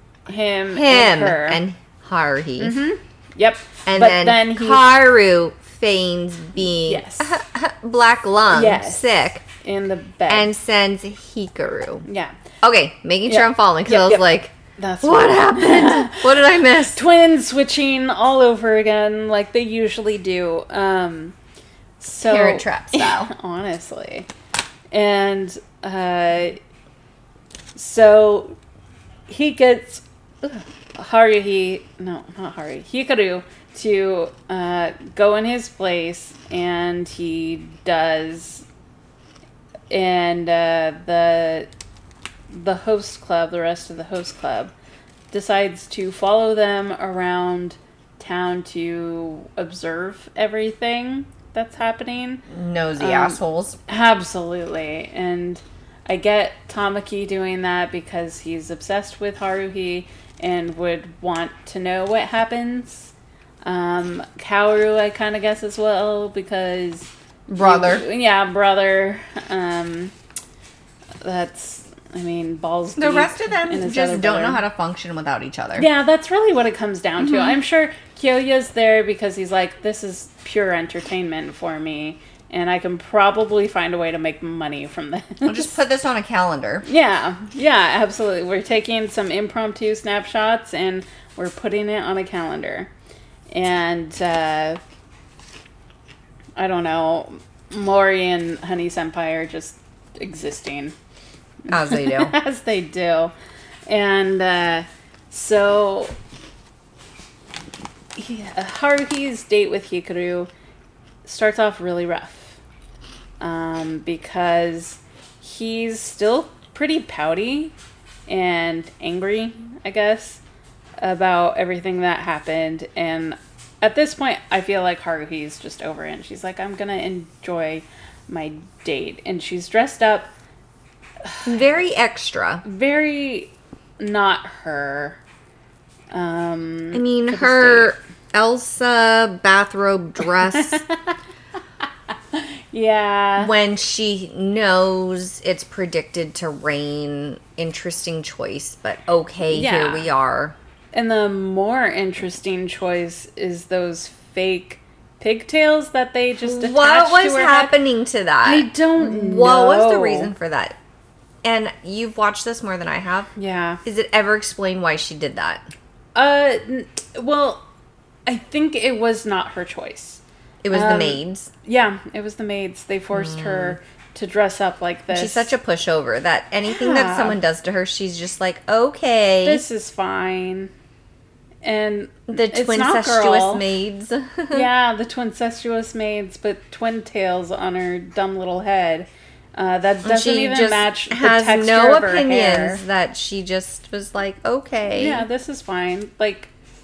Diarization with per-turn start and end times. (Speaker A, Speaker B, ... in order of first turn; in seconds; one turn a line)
Speaker A: 0.3-1.6
Speaker B: 0.7-2.8
Speaker A: 2.6-4.9
Speaker B: 3.9-9.4
Speaker A: 6.8-7.4
Speaker A: 8.5-10.5
Speaker B: 10.3-12.1
Speaker A: 12.1-12.3
Speaker B: 12.6-17.0
Speaker A: 13.3-14.3
Speaker A: 14.8-21.4
Speaker A: 22.0-24.3
Speaker B: 22.2-23.3
Speaker A: 24.9-26.6
Speaker A: 27.8-28.6
Speaker A: 29.3-38.7
Speaker A: 39.9-41.7
Speaker A: 42.5-44.7
Speaker A: 45.3-52.5
Speaker B: 52.5-53.8
Speaker A: 53.0-63.1
Speaker A: 63.6-70.1
Speaker B: 67.5-68.0
Speaker A: 71.2-74.6
Speaker B: 73.0-75.9
Speaker A: 75.8-85.8
Speaker B: 77.2-77.6
Speaker B: 85.5-86.8
Speaker A: 86.8-92.9
Speaker A: 93.5-94.8
Speaker A: 96.6-101.0
Speaker B: 101.7-102.3
Speaker A: 101.7-103.3
Speaker A: 103.9-106.2
Speaker A: 108.2-110.5
Speaker A: 111.2-112.6
Speaker A: 113.4-117.7
Speaker A: 118.3-120.4
Speaker A: 121.0-130.3
Speaker A: 131.2-131.7
Speaker B: 131.5-132.6
Speaker A: 132.6-135.2
Speaker A: 136.1-138.0
Speaker B: 136.9-140.8
Speaker A: 140.2-141.2
Speaker A: 142.3-143.5
Speaker B: 143.4-150.6
Speaker A: 149.5-150.1
Speaker A: 150.9-157.8
Speaker B: 156.4-160.8
Speaker A: 158.4-160.3
Speaker B: 161.4-163.3
Speaker A: 163.4-163.8
Speaker B: 163.8-165.7
Speaker A: 166.2-167.6
Speaker A: 168.3-175.5
Speaker B: 170.6-171.5
Speaker B: 173.1-173.8
Speaker B: 175.1-179.7
Speaker A: 176.7-177.4
Speaker A: 179.4-180.7
Speaker A: 181.6-183.6
Speaker B: 182.3-184.7
Speaker A: 184.5-192.8
Speaker B: 190.0-195.2
Speaker A: 194.9-196.5